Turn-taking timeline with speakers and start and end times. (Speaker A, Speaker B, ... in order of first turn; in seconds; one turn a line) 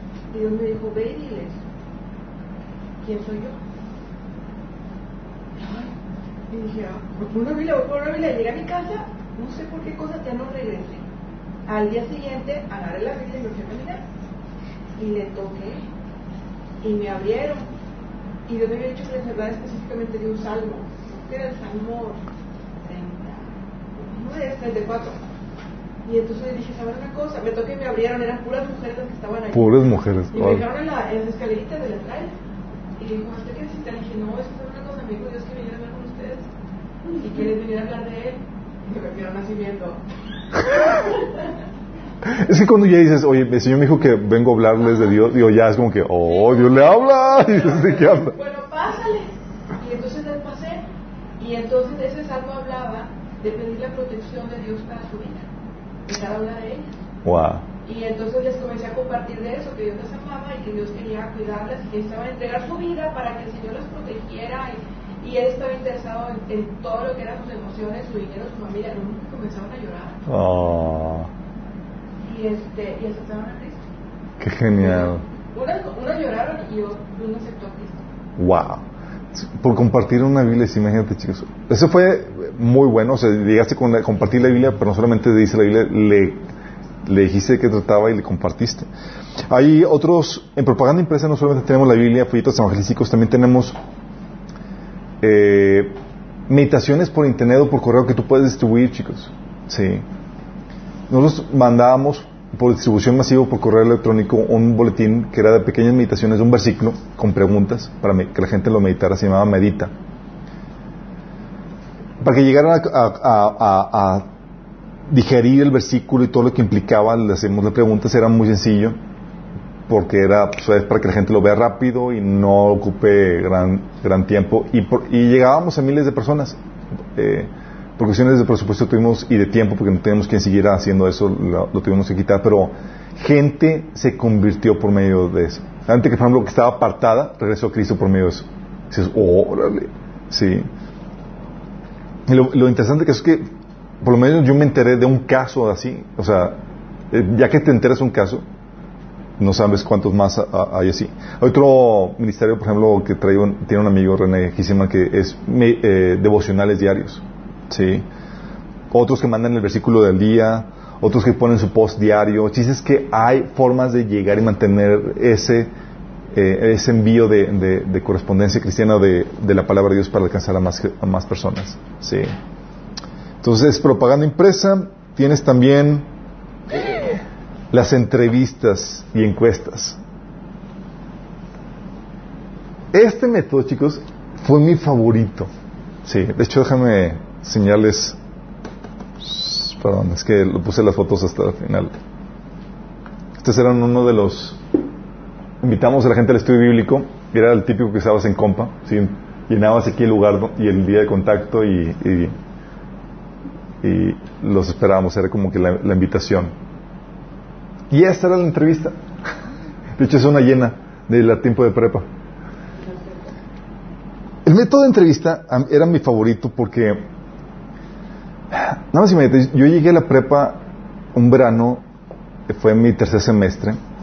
Speaker A: 0.3-1.6
Speaker A: 3.0-3.6
Speaker A: 5.6-5.9
Speaker A: 6.5-11.1
Speaker A: 11.7-14.1
Speaker A: 15.0-15.8
Speaker A: 16.8-17.7
Speaker A: 18.5-22.2
Speaker A: 22.8-25.2
Speaker A: 26.1-32.4
Speaker B: 29.5-30.6
Speaker A: 33.0-36.5
Speaker A: 37.2-40.0
Speaker A: 40.7-41.3
Speaker B: 42.2-48.4
Speaker A: 46.3-50.9
Speaker A: 51.4-55.5
Speaker A: 56.1-57.0
Speaker B: 57.2-57.6
Speaker A: 57.9-70.2
Speaker B: 70.3-71.3
Speaker A: 72.2-73.8
Speaker B: 74.4-75.2
Speaker A: 74.8-78.0
Speaker B: 78.4-86.4
Speaker B: 87.1-88.9
Speaker B: 89.5-93.8
Speaker B: 95.2-96.0
Speaker B: 96.5-100.0
Speaker B: 101.1-109.9
Speaker B: 112.2-114.3
Speaker B: 115.1-119.0
Speaker B: 119.9-126.6
Speaker B: 127.2-140.7
Speaker B: 142.3-143.5
Speaker B: 144.0-146.6
Speaker B: 147.1-148.4
Speaker B: 149.4-158.1
Speaker B: 158.9-165.7
Speaker B: 166.3-172.3
Speaker B: 173.4-176.1
Speaker B: 176.7-177.2
Speaker B: 177.7-180.0
Speaker B: 182.9-185.5
Speaker B: 186.1-188.2
Speaker B: 189.2-191.9
Speaker B: 193.4-194.6
Speaker B: 195.6-202.3
Speaker B: 203.8-206.5
Speaker B: 207.9-208.9
Speaker B: 210.0-212.1
Speaker A: 212.8-213.3
Speaker B: 214.4-217.0
Speaker B: 218.5-220.6
Speaker B: 221.1-221.8
Speaker B: 222.5-223.8